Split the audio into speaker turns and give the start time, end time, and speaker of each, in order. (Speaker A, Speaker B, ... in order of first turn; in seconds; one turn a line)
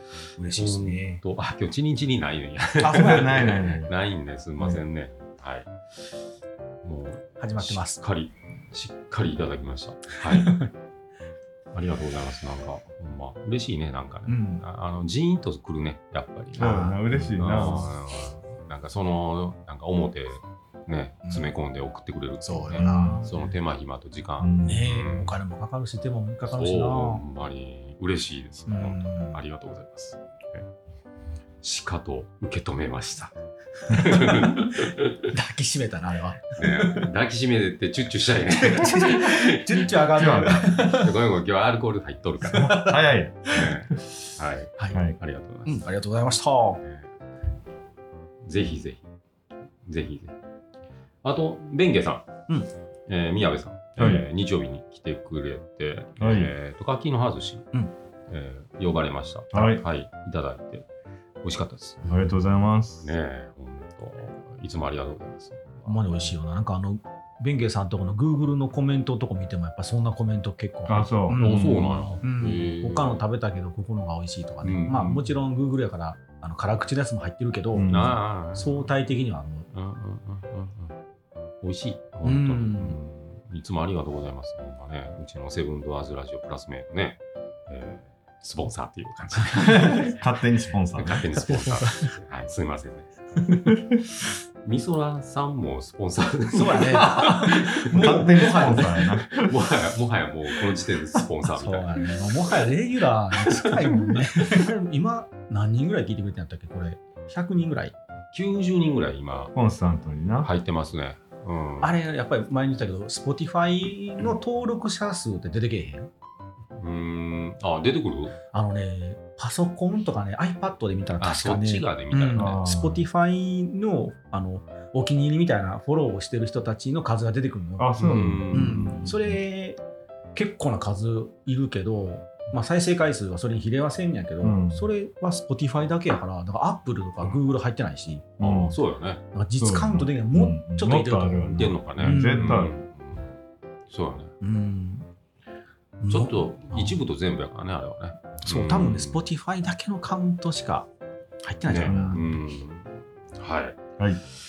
Speaker A: 0.4-1.2
Speaker B: 0.4-6.1
Speaker C: 2.8-3.9
Speaker A: 2.9-3.3
Speaker B: 6.8-10.6
Speaker A: 7.4-8.0
Speaker A: 10.3-10.7
Speaker B: 11.7-16.8
Speaker A: 14.3-14.6
Speaker A: 16.6-17.0
Speaker C: 16.6-17.9
Speaker B: 17.3-25.3
Speaker A: 22.4-23.3
Speaker C: 22.7-23.4
Speaker C: 24.4-24.9
Speaker A: 24.6-27.2
Speaker B: 26.5-30.7
Speaker A: 28.7-29.4
Speaker B: 31.6-33.3
Speaker B: 33.9-35.3
Speaker A: 33.9-37.1
Speaker B: 36.6-42.8
Speaker A: 38.5-41.1
Speaker C: 40.1-40.6
Speaker A: 42.4-43.7
Speaker C: 42.5-44.2
Speaker B: 43.5-45.9
Speaker A: 45.6-46.8
Speaker B: 46.8-47.1
Speaker B: 48.4-49.1
Speaker B: 49.8-50.3
Speaker B: 51.2-52.3
Speaker B: 53.1-57.7
Speaker C: 54.0-54.2
Speaker C: 56.2-56.5
Speaker B: 58.3-60.9
Speaker C: 59.5-59.8
Speaker B: 61.4-62.0
Speaker A: 62.0-62.3
Speaker C: 62.1-63.1
Speaker B: 63.0-66.0
Speaker A: 65.9-78.0
Speaker C: 70.9-72.2
Speaker B: 71.3-73.2
Speaker B: 74.6-75.2
Speaker C: 77.7-78.2
Speaker B: 77.9-78.9
Speaker A: 78.5-79.7
Speaker B: 79.7-80.9
Speaker B: 81.6-90.1
Speaker A: 82.2-83.0
Speaker A: 89.4-90.1
Speaker C: 89.6-91.2
Speaker B: 91.0-93.1
Speaker A: 91.3-92.1
Speaker A: 93.4-93.7
Speaker C: 93.7-94.0
Speaker B: 94.6-98.1
Speaker A: 96.5-99.0
Speaker C: 97.8-99.5
Speaker B: 98.6-102.2
Speaker A: 101.6-107.9
Speaker B: 103.4-104.1
Speaker B: 108.3-109.5
Speaker C: 109.5-110.5
Speaker B: 110.4-111.9
Speaker A: 111.8-116.1
Speaker B: 116.8-118.3
Speaker A: 118.5-128.0
Speaker B: 121.2-122.6
Speaker C: 122.3-123.0
Speaker C: 127.8-129.4
Speaker B: 128.0-129.0
Speaker A: 128.5-129.8
Speaker A: 130.3-138.3
Speaker C: 134.4-134.8
Speaker C: 138.4-138.8
Speaker B: 138.4-139.2
Speaker A: 139.3-142.7
Speaker C: 139.6-142.7
Speaker B: 141.5-143.3
Speaker B: 143.9-144.3
Speaker A: 144.4-145.1
Speaker A: 146.0-147.0
Speaker B: 146.1-149.3
Speaker A: 148.4-150.9
Speaker A: 151.4-152.2
Speaker B: 151.7-153.8
Speaker C: 151.8-152.3